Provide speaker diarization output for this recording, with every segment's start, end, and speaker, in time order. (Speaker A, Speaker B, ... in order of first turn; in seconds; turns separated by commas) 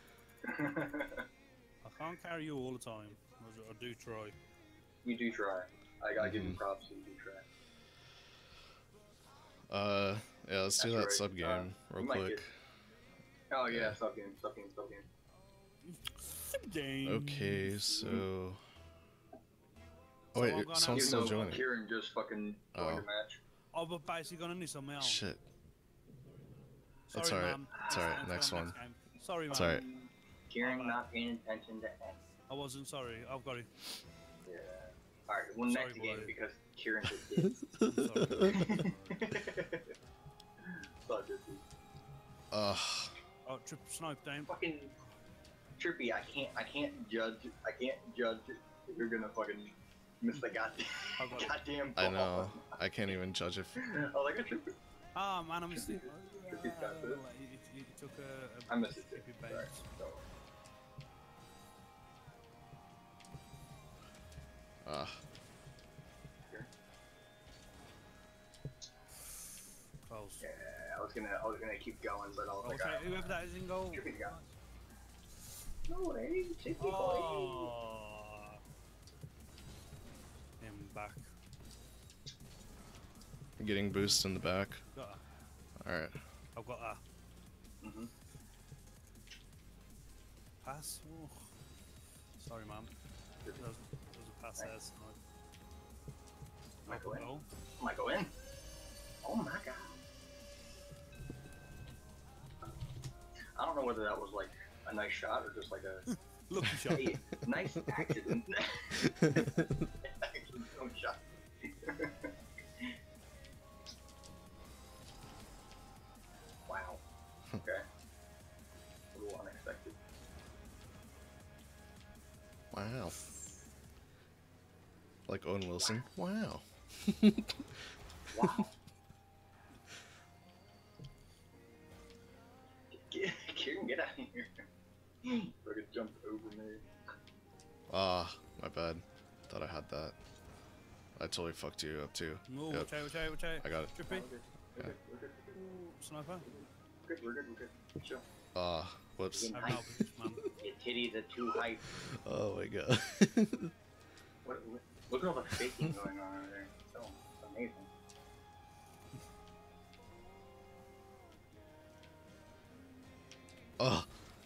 Speaker A: 0.4-1.2, Speaker B: 1.8-4.3, Speaker A: 5.0-7.4, Speaker C: 6.2-6.6, Speaker C: 9.7-12.5, Speaker A: 10.8-12.4, Speaker A: 13.5-15.1, Speaker C: 13.7-14.0, Speaker B: 15.8-17.7, Speaker C: 17.0-18.6, Speaker A: 18.0-18.2, Speaker C: 20.3-21.6, Speaker B: 20.3-21.5, Speaker A: 20.9-23.4, Speaker C: 22.7-23.1, Speaker B: 23.7-25.2, Speaker C: 25.0-25.4, Speaker B: 27.1-29.8, Speaker C: 27.1-28.8, Speaker A: 27.7-28.2, Speaker C: 29.5-29.8, Speaker A: 29.5-32.2, Speaker B: 30.6-31.0, Speaker B: 32.5-33.7, Speaker A: 34.5-37.6, Speaker B: 35.7-36.3, Speaker C: 37.8-38.7, Speaker B: 37.8-39.4, Speaker A: 38.4-39.9, Speaker A: 40.6-41.6, Speaker C: 42.5-43.1, Speaker B: 43.5-44.5, Speaker A: 44.5-44.9, Speaker A: 45.8-52.8, Speaker B: 51.2-51.5, Speaker C: 52.0-53.8, Speaker A: 53.8-54.7, Speaker B: 55.1-59.8, Speaker A: 55.7-57.2, Speaker A: 58.7-60.2, Speaker C: 64.8-65.2, Speaker B: 70.1-70.4, Speaker A: 70.4-73.4, Speaker B: 72.6-74.5, Speaker A: 73.9-74.4, Speaker A: 75.9-77.7, Speaker B: 76.8-78.6, Speaker B: 80.6-81.3, Speaker C: 83.6-84.8, Speaker B: 84.8-85.2, Speaker C: 85.8-86.2, Speaker B: 86.5-87.0, Speaker A: 87.8-88.1, Speaker B: 90.6-91.4, Speaker B: 92.4-92.9, Speaker B: 93.6-95.2, Speaker A: 96.8-97.3, Speaker B: 96.9-97.5, Speaker A: 97.8-98.3, Speaker A: 99.2-100.0, Speaker A: 103.5-106.1, Speaker B: 106.1-107.1, Speaker A: 106.8-109.4, Speaker C: 109.0-109.7, Speaker A: 110.2-112.9, Speaker A: 116.7-117.0, Speaker A: 119.1-120.0, Speaker C: 122.7-123.2, Speaker C: 125.3-127.8, Speaker A: 128.3-128.7, Speaker A: 132.9-134.6, Speaker A: 135.2-136.8, Speaker C: 137.9-140.2, Speaker C: 141.2-142.9, Speaker B: 142.5-144.2, Speaker C: 143.6-143.9, Speaker A: 144.1-145.7, Speaker B: 145.5-146.5, Speaker A: 146.5-148.2, Speaker C: 148.5-149.8, Speaker A: 149.3-149.9, Speaker B: 149.5-150.4, Speaker A: 150.5-151.9, Speaker C: 152.0-153.7, Speaker A: 154.4-157.9, Speaker C: 163.8-164.1